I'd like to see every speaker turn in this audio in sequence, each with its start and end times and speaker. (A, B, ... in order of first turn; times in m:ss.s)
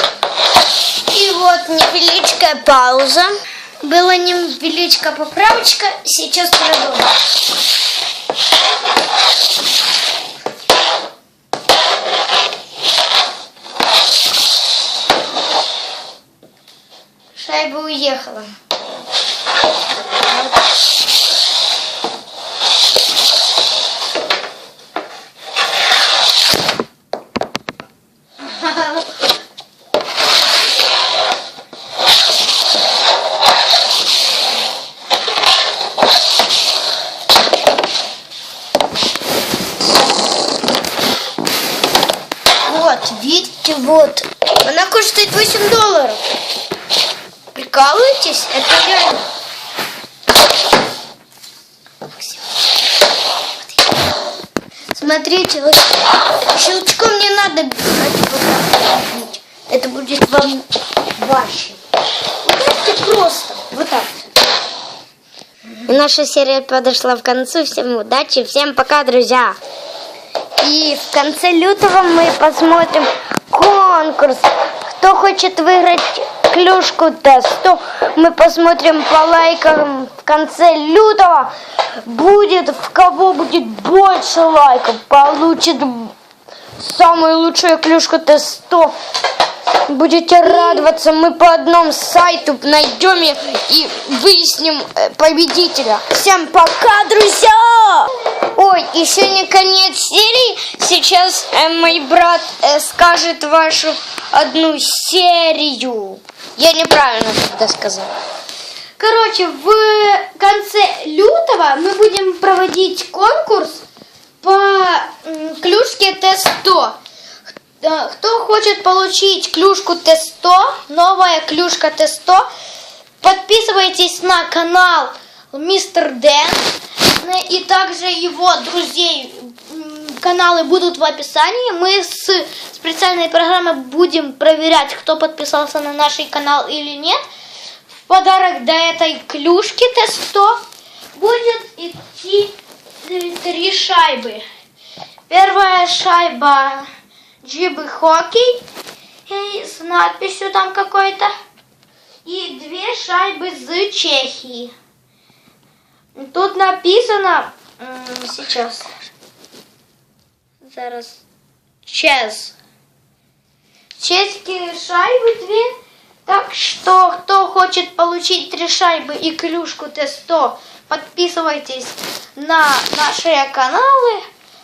0:01.1-0:07.2 A
0:17.4-0:18.5 A
0:42.7-0:46.2 A
0:47.5-0:49.3 A
0:52.1-0:52.4 A
0:54.9-1:01.8 A
1:02.4-1:04.3 A
1:05.9-1:09.6 A
1:10.6-1:21.5 A
1:22.0-1:26.1 A
1:26.8-1:29.0 A
1:29.9-1:48.1 A
1:49.0-1:53.8 B
1:51.8-1:53.2 A
1:54.4-1:56.9 B
1:57.8-2:01.0 A
1:57.8-2:02.5 B
2:01.9-2:02.4 A
2:03.2-2:06.7 B
2:03.8-2:06.6 A
2:07.2-2:17.2 A
2:07.2-2:17.2 B
2:18.1-2:20.6 B
2:18.4-2:19.8 A
2:20.3-2:20.6 A
2:21.2-2:22.5 B
2:21.2-2:21.9 A
2:23.0-2:24.4 B
2:23.1-2:24.4 A
2:25.3-2:26.8 B
2:25.5-2:26.8 A
2:27.4-2:28.6 B
2:27.4-2:28.6 A
2:29.3-2:31.3 B
2:29.3-2:31.3 A
2:32.3-2:34.7 B
2:32.6-2:34.7 A
2:36.2-2:38.9 B
2:36.6-2:37.5 A
2:38.2-2:38.8 A
2:40.7-2:41.1 A
2:40.7-2:41.1 B
2:41.9-2:42.5 A
2:41.9-2:42.5 B
2:44.0-2:45.7 B
2:44.1-2:45.6 A
2:46.3-2:54.2 B
2:46.3-2:48.0 A
2:49.1-2:50.4 A
2:51.0-2:54.2 A